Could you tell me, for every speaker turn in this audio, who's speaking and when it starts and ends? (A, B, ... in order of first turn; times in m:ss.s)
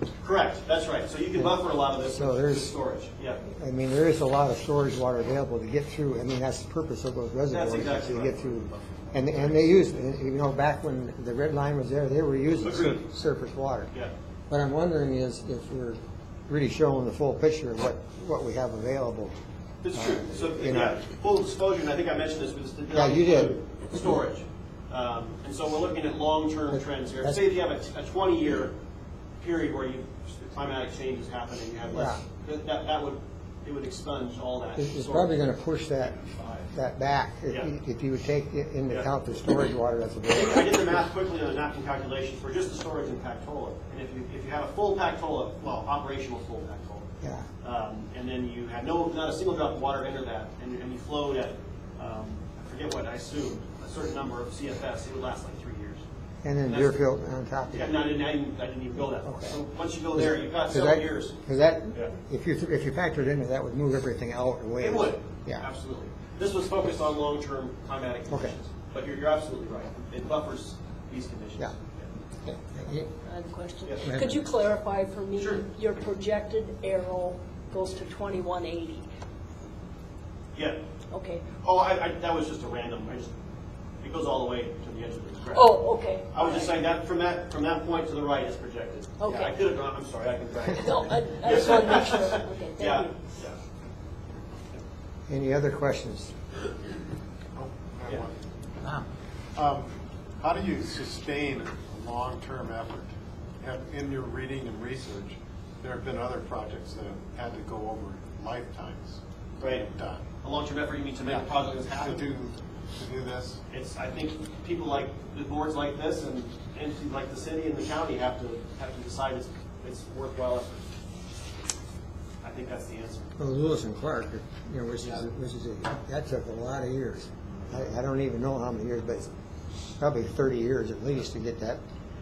0:00.2-0:03.4 A
0:01.4-0:02.7 B
0:03.4-0:13.9 B
0:07.5-0:09.9 A
0:12.6-0:13.0 A
0:14.5-0:19.3 B
0:19.8-0:28.8 A
0:19.9-0:21.0 B
0:22.9-0:23.6 B
0:26.7-0:27.4 B
0:29.4-0:35.4 A
0:31.9-0:32.2 B
0:34.8-0:41.0 B
0:36.2-0:36.6 A
0:40.3-0:47.1 A
0:47.2-0:47.5 B
0:47.6-0:56.0 A
0:56.4-0:58.0 B
0:56.6-0:57.0 A
0:57.7-1:01.3 A
0:59.3-0:59.6 B
1:00.1-1:05.6 B
1:04.8-1:12.1 A
1:08.3-1:08.5 B
1:12.4-1:13.1 B
1:13.2-1:19.1 C
1:13.8-1:14.1 A
1:14.0-1:14.4 B
1:15.4-1:15.6 A
1:20.5-1:20.8 A
1:21.1-1:21.5 C
1:21.5-1:23.3 A
1:24.0-1:33.6 A
1:25.5-1:26.8 C
1:29.2-1:29.6 C
1:30.7-1:33.1 C
1:35.3-1:36.3 B
1:37.6-1:38.3 D
1:39.6-1:50.3 D
1:49.6-1:49.9 A
1:50.4-1:52.2 A
1:51.2-1:53.6 D
1:53.7-2:00.9 A
2:02.4-2:03.3 A
2:03.4-2:09.3 B
2:05.0-2:05.2 A
2:10.0-2:11.8 B